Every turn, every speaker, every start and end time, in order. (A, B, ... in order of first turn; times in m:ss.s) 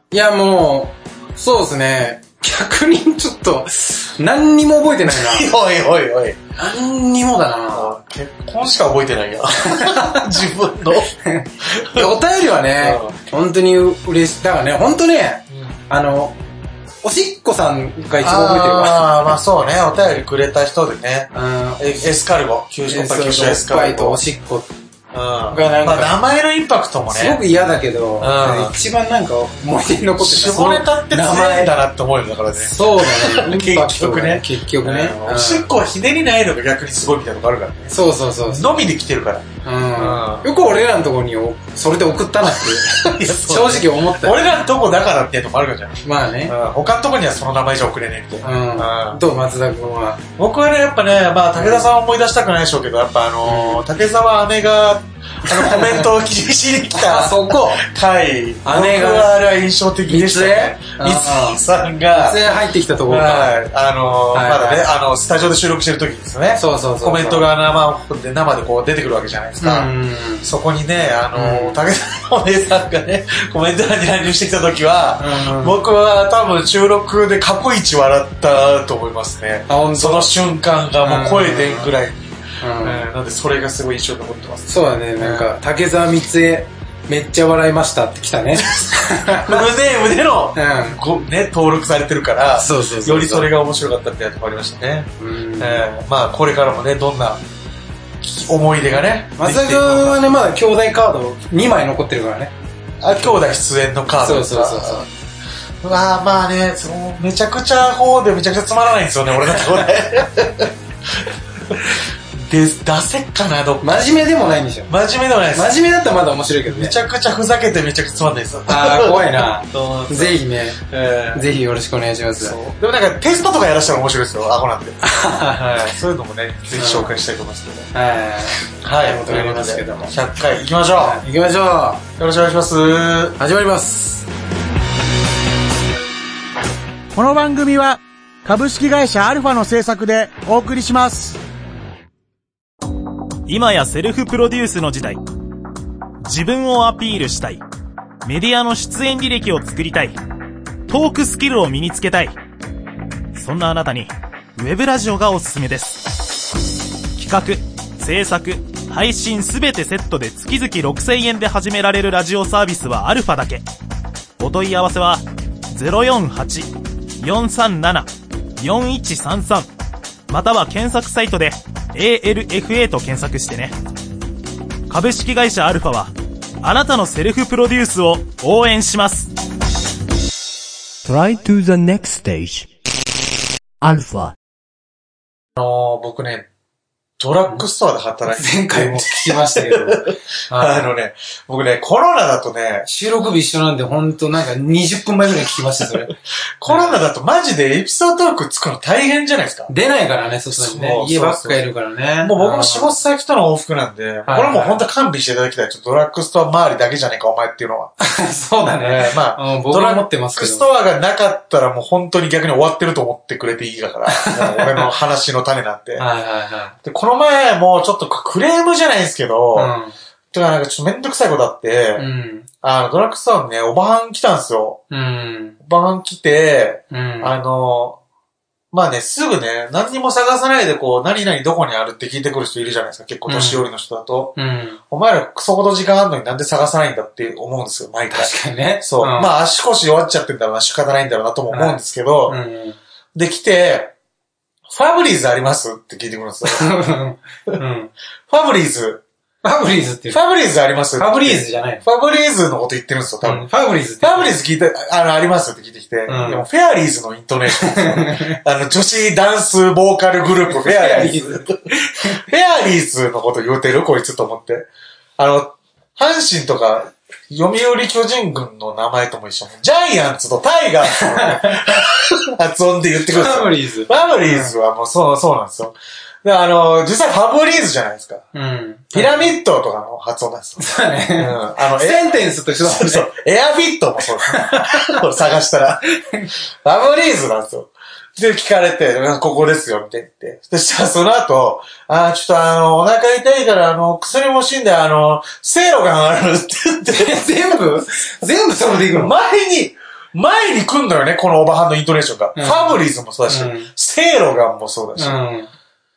0:00.1-0:05.5 A
0:05.1-0:06.4 B
0:06.6-0:08.0 A
0:07.7-0:12.1 B
0:09.6-0:10.3 A
0:11.2-0:16.4 A
0:12.8-0:13.2 B
0:17.0-0:19.2 A
0:18.2-0:24.2 B
0:21.3-0:22.0 A
0:22.9-0:24.7 A
0:25.1-0:27.4 B
0:25.5-0:26.2 A
0:27.1-0:31.8 A
0:28.2-0:28.7 B
0:30.2-0:40.5 B
0:32.6-0:35.7 A
0:37.9-0:38.8 A
0:39.6-0:44.5 A
0:42.4-0:49.2 B
0:46.0-0:46.5 A
0:48.4-0:50.2 A
0:50.4-1:02.4 B
0:51.5-0:51.9 A
0:53.4-0:53.8 A
0:55.4-0:56.1 A
0:56.9-0:57.8 A
0:58.6-0:59.3 A
1:00.1-1:01.6 A
1:02.2-1:03.6 A
1:03.1-1:09.9 B
1:04.3-1:04.8 A
1:06.6-1:07.5 A
1:09.6-1:10.5 A
1:10.4-1:25.5 B
1:11.3-1:11.8 A
1:15.2-1:15.8 A
1:19.7-1:20.3 A
1:21.0-1:21.9 A
1:22.6-1:23.0 A
1:24.7-1:29.7 A
1:28.6-1:37.4 B
1:30.5-1:31.0 A
1:32.6-1:33.5 A
1:35.2-1:35.9 A
1:38.2-1:40.2 B
1:39.3-1:42.5 A
1:43.0-1:45.1 B
1:44.2-1:45.0 A
1:45.8-1:54.1 B
1:53.8-1:54.9 A
1:54.9-1:55.8 B
1:55.5-1:57.0 A
1:56.6-2:01.4 B
1:58.7-2:00.8 A
2:01.3-2:02.6 A
2:02.4-2:07.9 B
2:05.0-2:05.6 A
2:06.7-2:07.1 A
2:07.9-2:10.1 A
2:08.8-2:11.2 B
2:11.0-2:12.0 A
2:12.2-2:13.4 B
2:13.4-2:14.2 A
2:17.1-2:21.4 B
2:23.5-2:25.2 C
2:26.2-2:27.6 C
2:28.2-2:30.2 C
2:30.9-2:32.4 C
2:33.3-2:36.3 C
2:37.2-2:43.6 C
2:44.4-2:49.7 C
2:50.3-2:53.7 C
2:54.9-2:59.3 C
3:01.0-3:02.7 D
3:03.8-3:04.3 D
3:05.6-3:06.5 B
3:07.2-3:12.9 B
3:08.2-3:10.9 A
3:12.8-3:16.1 A
3:16.0-3:19.7 B
3:16.6-3:17.0 A
3:19.7-3:23.0 A
3:20.5-3:21.6 B
3:22.2-3:27.9 B
3:24.2-3:24.8 A
3:28.0-3:30.7 A
3:28.6-3:36.0 B
3:34.1-3:34.9 A
3:36.0-3:36.8 A
3:36.8-3:39.7 B
3:39.5-3:39.9 A
3:40.3-3:42.1 B
3:42.0-3:42.5 A
3:42.6-3:44.8 B
3:44.9-3:45.6 A
3:45.6-3:48.0 B
3:46.9-3:47.3 A
3:48.7-3:54.4 B
3:53.3-3:53.7 A
3:54.4-3:54.8 A
3:54.9-4:02.4 B
3:58.1-3:59.3 A
4:01.5-4:02.8 A
4:03.1-4:03.9 B
4:04.7-4:06.7 B
4:06.4-4:07.9 A
4:08.3-4:09.0 B
4:09.4-4:10.2 A
4:10.1-4:38.2 B
4:11.0-4:11.8 A
4:13.2-4:14.4 A
4:16.1-4:16.4 A
4:17.5-4:18.4 A
4:20.5-4:22.2 A
4:30.9-4:31.8 A
4:33.1-4:34.5 A
4:38.3-4:39.3 A
4:38.9-4:45.9 B
4:40.6-4:43.1 A
4:44.3-4:44.9 A
4:46.6-4:57.2 B
4:56.9-4:59.1 A
4:58.9-5:05.2 B
5:02.4-5:03.7 A
5:05.0-5:05.5 A